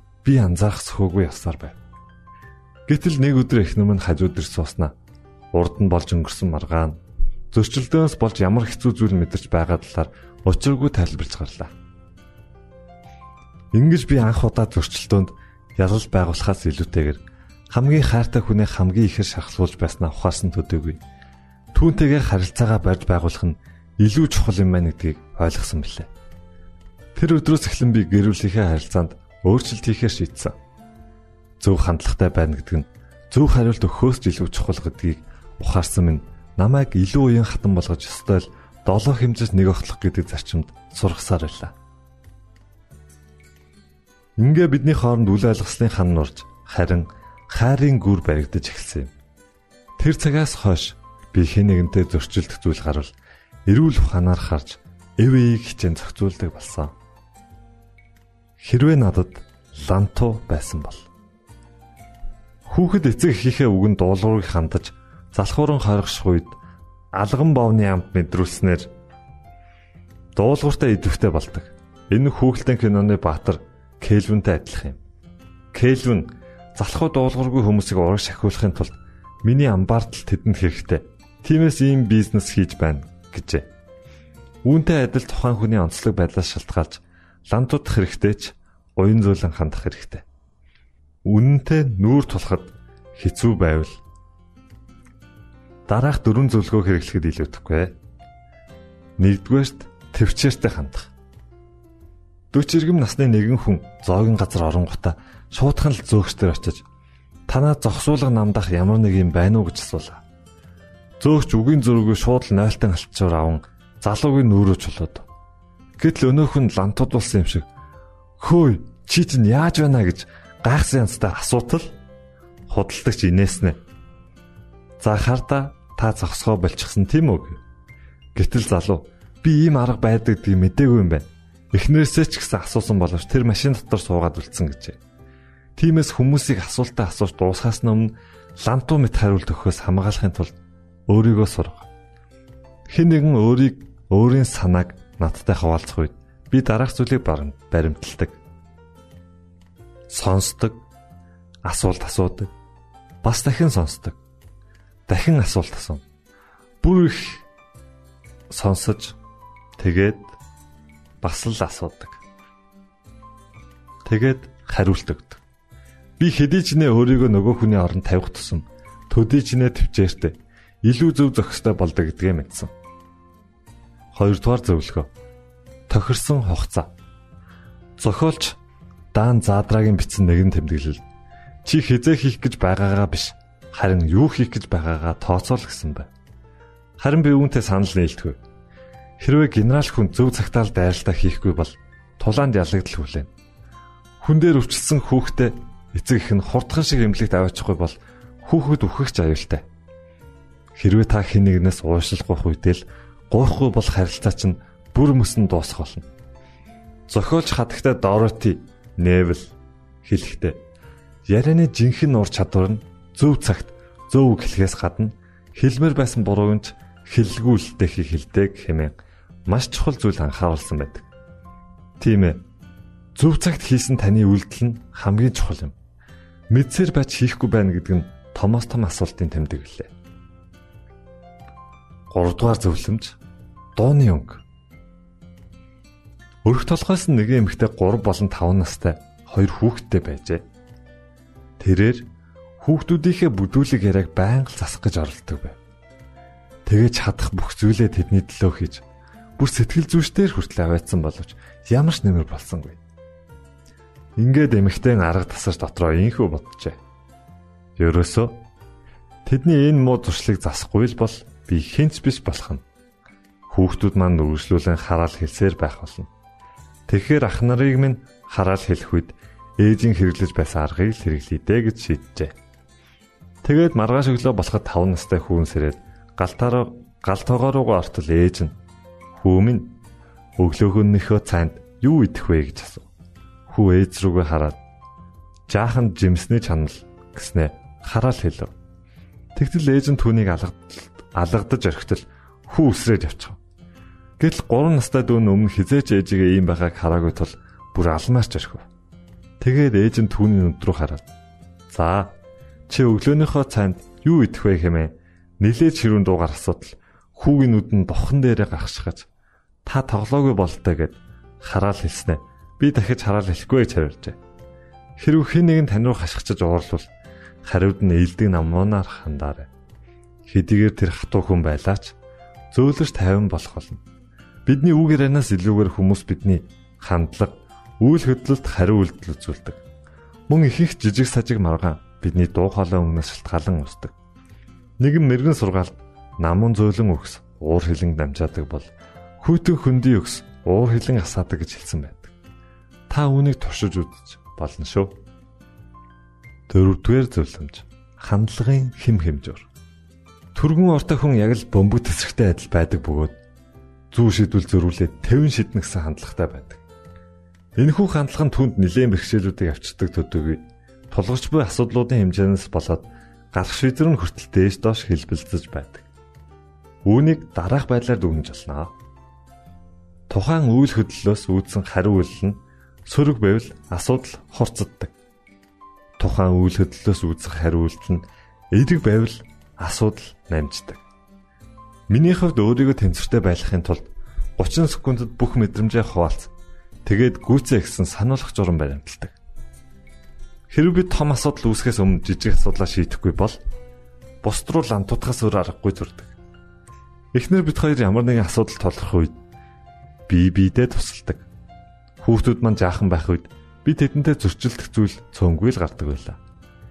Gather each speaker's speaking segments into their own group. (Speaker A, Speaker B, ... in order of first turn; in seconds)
Speaker A: 0.2-1.8, 2.9-4.9, 5.5-7.0, 7.5-11.7, 13.7-17.2, 17.7-21.0, 21.7-26.1, 27.1-30.6, 31.6-41.7, 44.4-49.1, 50.0-53.1, 53.7-56.9, 58.6-61.1, 62.7-66.6, 67.1-68.9, 70.3-75.0, 75.7-83.7, 84.6-90.2, 91.2-94.0, 95.9-97.9, 99.2-101.1, 102.5-106.8, 107.5-110.2, 111.2-115.3, 116.0-117.7, 118.4-121.9, 122.7-123.8, 125.0-127.6, 128.3-135.0, 135.8-140.5, 141.1-141.9, 142.9-148.4, 150.1-150.8, 151.7-152.5, 153.2-154.2, 155.1-156.0, 156.8-157.4, 158.5-159.2, 159.8-160.4, 161.2-162.2, 164.1-165.4, 166.2-172.7, 174.1-175.1, 175.9-176.9, 178.0-178.6, 179.1-181.0, 181.6-186.1, 187.0-188.4, 189.2-193.3, 194.2-199.6, 200.8-206.1, 207.1-209.5, 210.0-210.6, 211.3-218.9, 219.5-221.1, 222.0-222.4, 223.2-225.7, 226.5-229.9, 232.1-233.2, 233.8-234.4, 236.4-240.4, 241.6-242.1, 242.6-245.6, 246.7-248.8, 249.4-252.8, 254.2-256.8, 257.8-258.4, 259.2-262.6, 263.5-266.1, 266.9-272.3, 273.4-278.5, 279.1-279.7, 280.4-282.9, 283.5-284.6, 285.5-288.5, 289.3-293.4, 294.2-298.6, 299.4-301.1, 301.7-302.1, 302.7-309.1, 309.6-314.2, 315.0-316.9, 317.4-319.5, 320.3-321.9, 322.5-323.8, 324.4-329.6, 330.3-333.9, 334.8-342.1, 342.9-344.9, 346.5-349.5, 350.3-353.2, 353.9-356.6, 357.6-365.9, 366.9-368.7, 370.1-374.9, 376.0-380.8, 381.9-383.9, 384.4-386.3, 386.9-389.1, 390.5-393.4, 394.2-396.1, 397.1-399.2, 400.1-401.2, 402.0-406.2